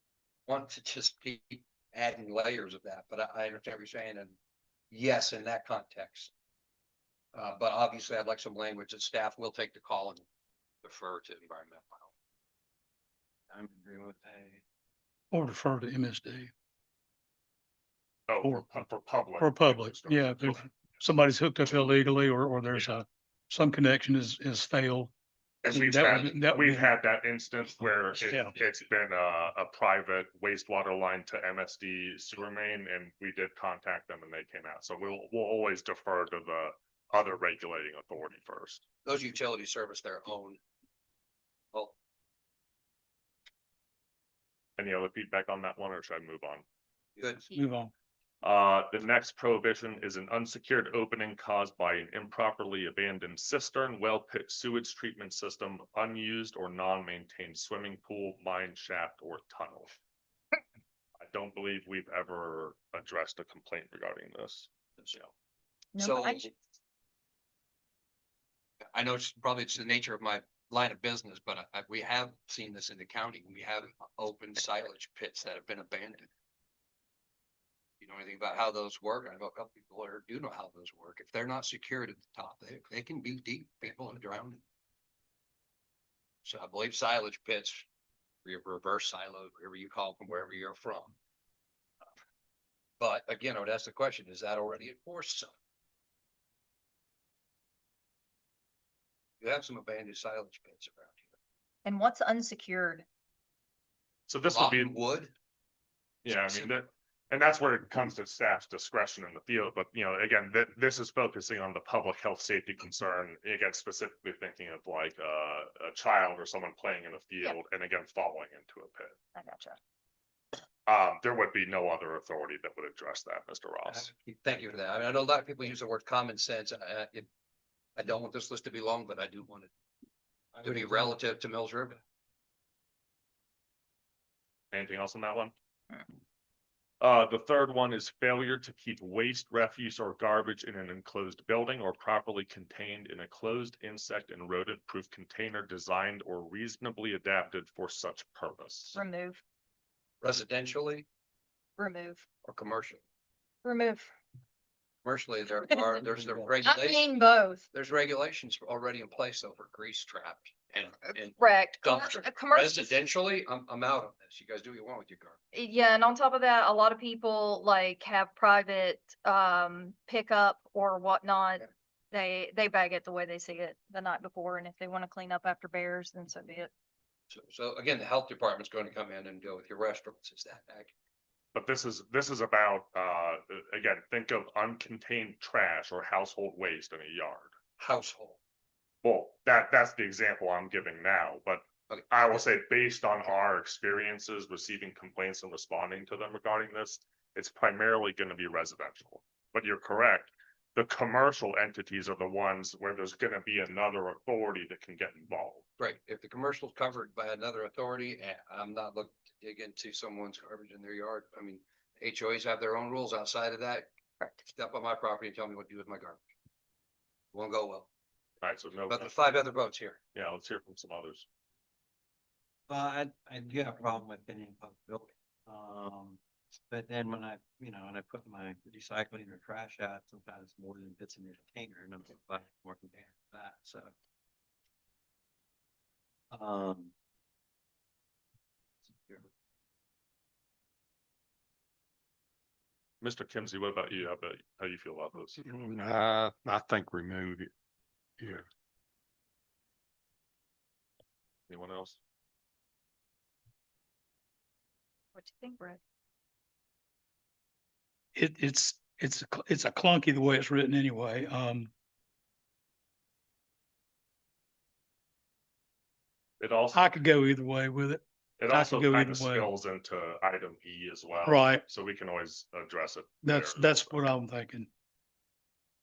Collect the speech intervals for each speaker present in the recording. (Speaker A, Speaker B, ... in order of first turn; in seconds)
Speaker A: 0.5-4.4, 4.9-6.3, 7.3-10.2, 10.8-12.1, 39.0-40.6, 47.2-47.5, 66.0-66.5, 68.9-76.3, 78.0-84.6, 86.4-87.8, 88.4-91.1, 93.0-95.5, 99.4-101.3, 104.5-105.3, 124.4-127.3, 128.0-129.7, 130.6-132.0, 150.2-151.1, 152.4-153.0, 155.0-157.1, 157.7-165.4, 177.3-180.9, 187.8-188.4, 205.8-213.9, 214.4-216.2, 217.3-217.9, 218.9-220.0
Speaker B: 13.5-14.6, 123.9-124.8, 130.5-131.2, 222.7-233.9, 236.3-236.9, 239.0-239.2
Speaker C: 15.3-16.5, 18.4-18.8, 19.4-25.1, 25.6-26.9, 28.2-28.5, 47.5-47.9, 258.1-261.7, 266.7-269.5, 271.2-271.6, 273.2-274.7
Speaker D: 18.3-20.7, 25.6-38.8, 44.8-46.6, 48.4-59.9, 61.2-65.3, 104.3-104.9, 106.2-119.2, 120.8-124.1, 134.7-135.5, 137.0-149.0, 181.5-187.5, 189.0-205.7, 218.4-219.2, 220.1-221.2, 243.0-245.4, 251.5-252.0, 266.4-266.8, 268.4-274.0
Speaker E: 65.9-66.4, 101.8-103.0, 119.3-119.8, 148.9-149.4, 151.8-152.2, 153.6-154.1, 156.6-157.6, 161.4-162.9, 165.5-176.7, 255.2-255.8
Speaker F: 245.4-247.5, 248.2-248.4